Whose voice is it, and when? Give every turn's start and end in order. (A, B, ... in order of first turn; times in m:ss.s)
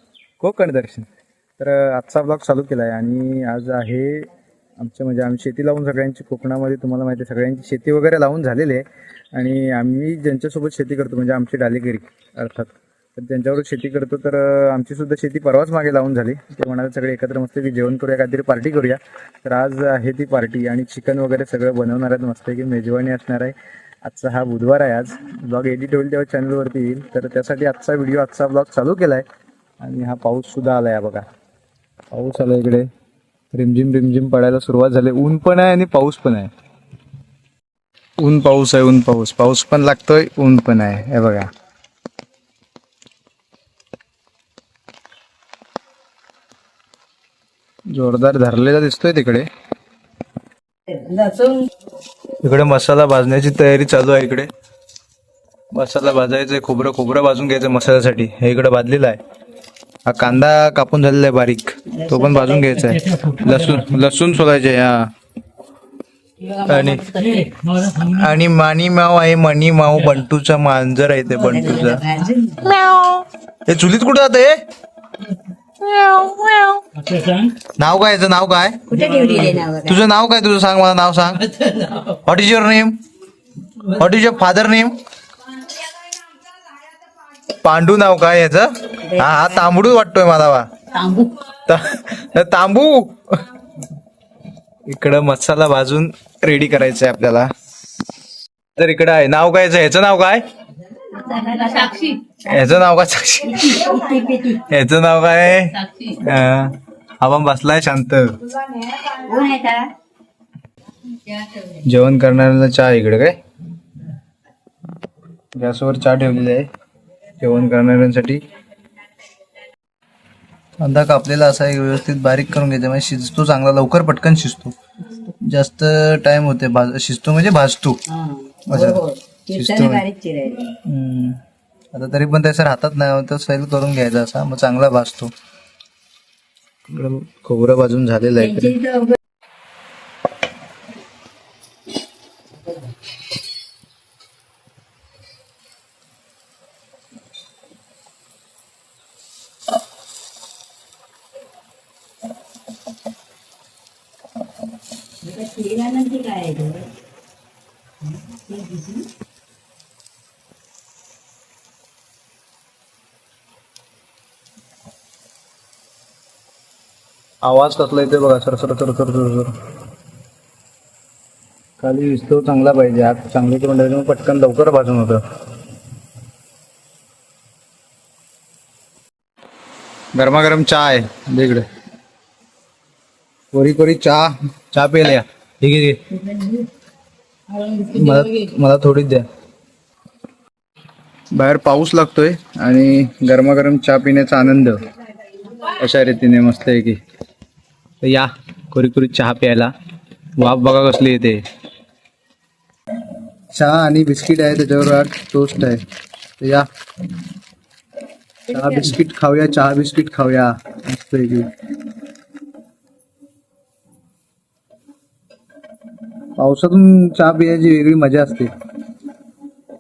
0:00.4-0:01.1 A
0:01.6-0:04.3 A
0:04.8-0:29.2 A
0:29.8-0:31.3 A
0:32.1-0:32.9 A
0:33.5-0:36.5 A
0:38.2-0:41.5 A
0:47.9-0:49.5 A
0:50.9-0:51.7 B
0:52.4-0:54.5 A
0:55.7-0:59.2 A
1:00.1-1:05.1 A
1:01.9-1:03.1 B
1:06.4-1:07.8 B
1:06.7-1:07.0 A
1:07.8-1:12.1 A
1:11.4-1:12.8 B
1:12.6-1:14.6 A
1:15.8-1:16.8 A
1:17.6-1:19.0 A
1:18.9-1:20.0 B
1:19.8-1:23.0 A
1:23.8-1:25.0 A
1:27.5-1:30.7 A
1:29.0-1:29.5 B
1:30.9-1:31.4 B
1:31.7-1:33.4 A
1:34.9-1:37.5 A
1:38.8-1:40.4 A
1:41.0-1:42.7 B
1:42.4-1:43.8 A
1:43.4-1:44.7 B
1:44.7-1:48.4 A
1:45.8-1:46.2 B
1:48.6-1:49.9 B
1:51.1-1:51.8 B
1:51.8-1:53.4 A
1:55.5-1:56.7 A
1:57.4-1:58.4 A
2:00.8-2:04.8 A
2:05.3-2:08.0 A
2:08.1-2:10.8 B
2:08.7-2:09.0 A
2:09.5-2:10.0 A
2:10.7-2:11.4 A
2:11.9-2:15.3 A
2:16.9-2:18.8 A
2:18.4-2:19.2 B
2:35.2-2:36.9 B
2:38.1-2:39.1 B
2:47.4-2:49.5 A
2:51.8-2:55.2 A
3:00.2-3:01.6 A
3:03.5-3:06.0 A
3:06.1-3:06.7 B
3:07.5-3:08.5 B
3:07.9-3:09.3 A
3:11.4-3:14.8 A
3:15.6-3:17.0 A
3:18.0-3:19.7 A
3:20.4-3:21.4 A
3:23.5-3:25.8 A
3:26.4-3:26.7 A
3:28.5-3:31.5 A
3:36.4-3:38.5 A